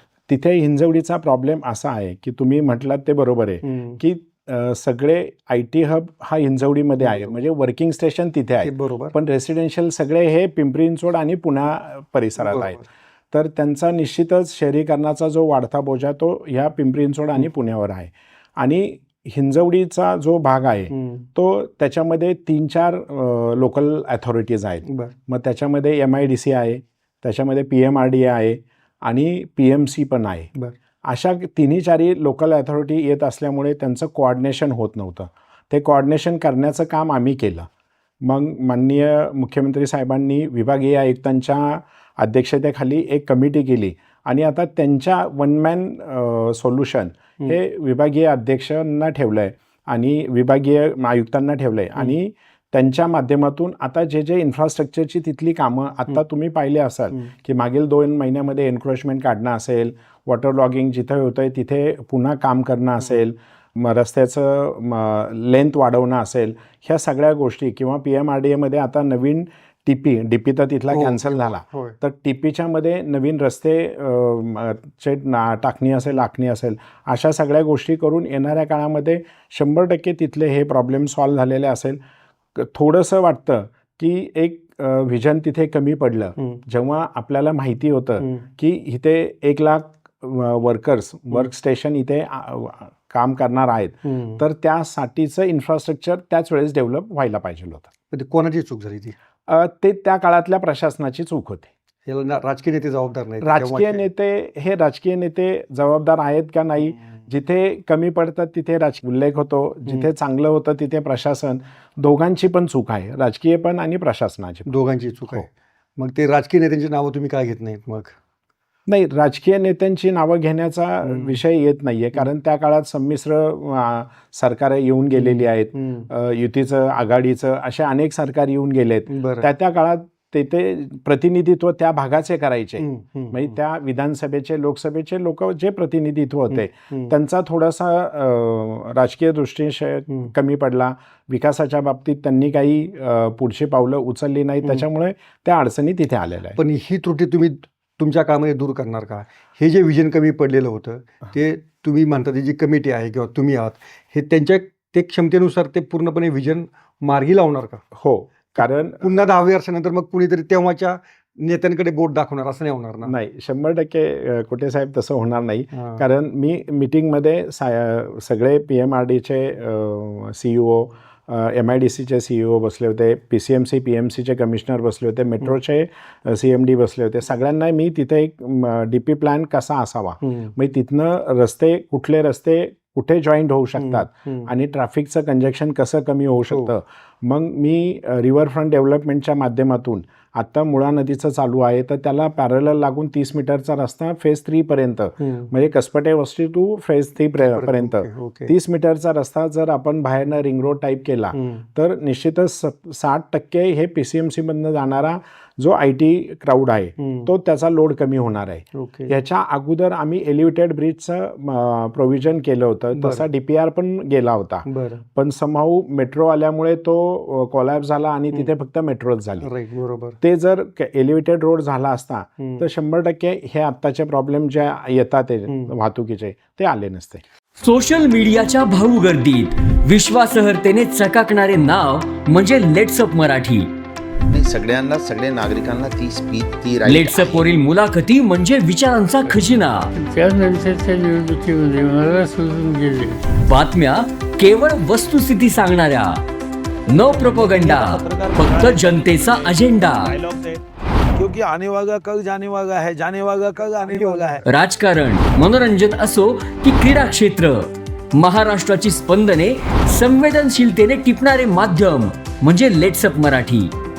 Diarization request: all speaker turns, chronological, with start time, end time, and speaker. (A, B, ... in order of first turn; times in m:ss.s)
0:00.3-0:12.8 A
0:03.6-0:04.0 B
0:07.0-0:07.3 B
0:08.6-0:09.1 B
0:12.4-0:12.8 B
0:13.3-0:30.5 A
0:20.9-0:21.2 B
0:24.9-0:25.1 B
0:31.0-0:37.7 A
0:38.2-1:22.0 A
1:10.9-1:12.0 B
1:22.6-1:37.9 A
1:34.0-1:34.4 B
1:38.1-1:39.1 B
1:39.5-1:41.7 A
1:42.0-1:44.0 B
1:43.4-1:54.7 A
1:54.7-1:58.2 B
1:58.9-2:26.6 A
2:01.0-2:01.4 B
2:05.1-2:06.1 B
2:09.1-2:09.5 B
2:12.8-2:13.5 B
2:16.5-2:17.1 B
2:26.6-2:37.8 B
2:37.9-2:39.0 A
2:38.6-2:43.1 B
2:43.0-3:39.5 A
2:45.8-2:46.0 B
3:00.2-3:00.5 B
3:03.8-3:04.5 B
3:15.2-3:15.5 B
3:17.4-3:18.5 B
3:21.3-3:21.6 B
3:27.0-3:27.3 B
3:28.7-3:29.1 B
3:33.0-3:33.2 B
3:34.6-3:35.0 B
3:39.4-3:40.2 B
3:40.2-3:47.2 A
3:45.5-3:45.7 B
3:47.6-3:53.7 C
3:54.3-3:57.5 D
3:56.8-3:59.9 C
3:59.9-4:03.2 E
4:03.4-4:06.2 C
4:06.9-4:10.2 C
4:07.7-4:08.6 F
4:10.1-4:10.6 F
4:11.2-4:14.4 F
4:13.7-4:14.4 B
4:14.4-4:23.7 C